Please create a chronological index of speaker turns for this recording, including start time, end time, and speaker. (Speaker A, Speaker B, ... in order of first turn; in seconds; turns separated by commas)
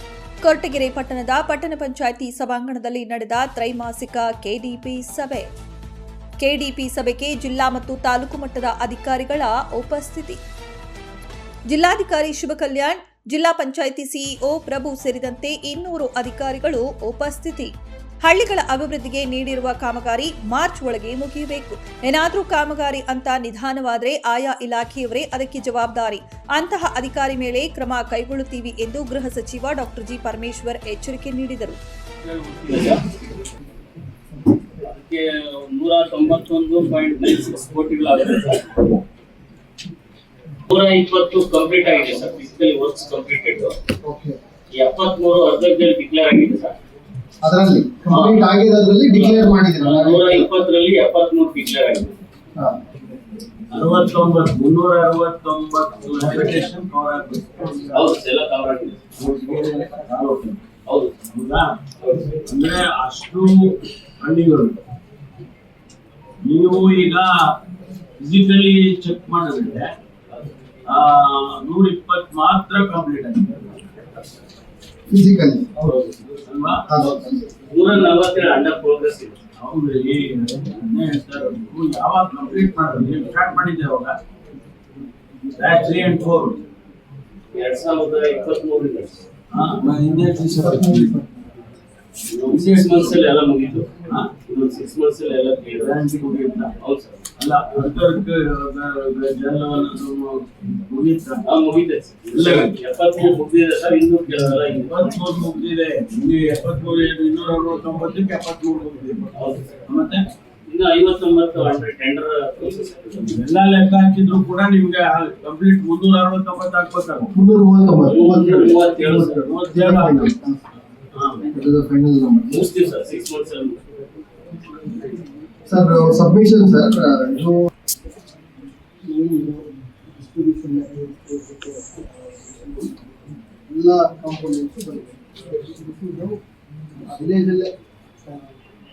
Speaker A: 0.4-5.5, Speaker A: 6.4-10.4, Speaker A: 11.7-17.7, Speaker A: 18.2-31.8, Speaker B: 32.2-33.0, Speaker B: 34.8-38.9, Speaker B: 40.7-43.8, Speaker C: 44.0-44.4, Speaker B: 44.7-46.8, Speaker C: 47.4-50.5, Speaker B: 48.1-48.5, Speaker B: 49.1-52.2, Speaker C: 52.5-53.0, Speaker D: 53.7-58.0, Speaker C: 57.6-58.1, Speaker B: 57.9-59.1, Speaker D: 59.1-60.7, Speaker B: 60.9-61.2, Speaker D: 61.2-64.8, Speaker B: 62.0-62.3, Speaker D: 66.4-67.3, Speaker D: 68.2-69.9, Speaker D: 70.9-73.9, Speaker C: 75.1-76.0, Speaker D: 76.3-77.1, Speaker C: 76.9-77.4, Speaker B: 77.7-79.4, Speaker D: 79.5-84.2, Speaker D: 85.5-86.6, Speaker B: 87.5-89.2, Speaker D: 89.5-91.2, Speaker C: 90.5-91.5, Speaker D: 92.3-93.3, Speaker B: 92.4-96.0, Speaker D: 93.9-94.4, Speaker D: 95.8-96.7, Speaker B: 96.8-97.3, Speaker D: 97.3-101.5, Speaker B: 101.4-105.0, Speaker D: 102.3-102.8, Speaker D: 104.5-110.3, Speaker B: 109.3-109.7, Speaker B: 110.7-113.3, Speaker D: 113.2-117.3, Speaker C: 117.3-118.8, Speaker B: 118.1-119.4, Speaker D: 118.4-120.3, Speaker C: 119.5-120.6, Speaker B: 121.1-121.4, Speaker C: 121.5-122.7, Speaker B: 122.5-123.8, Speaker C: 124.7-127.7, Speaker C: 129.0-133.0, Speaker C: 133.7-136.4, Speaker C: 137.0-137.7, Speaker C: 138.2-138.5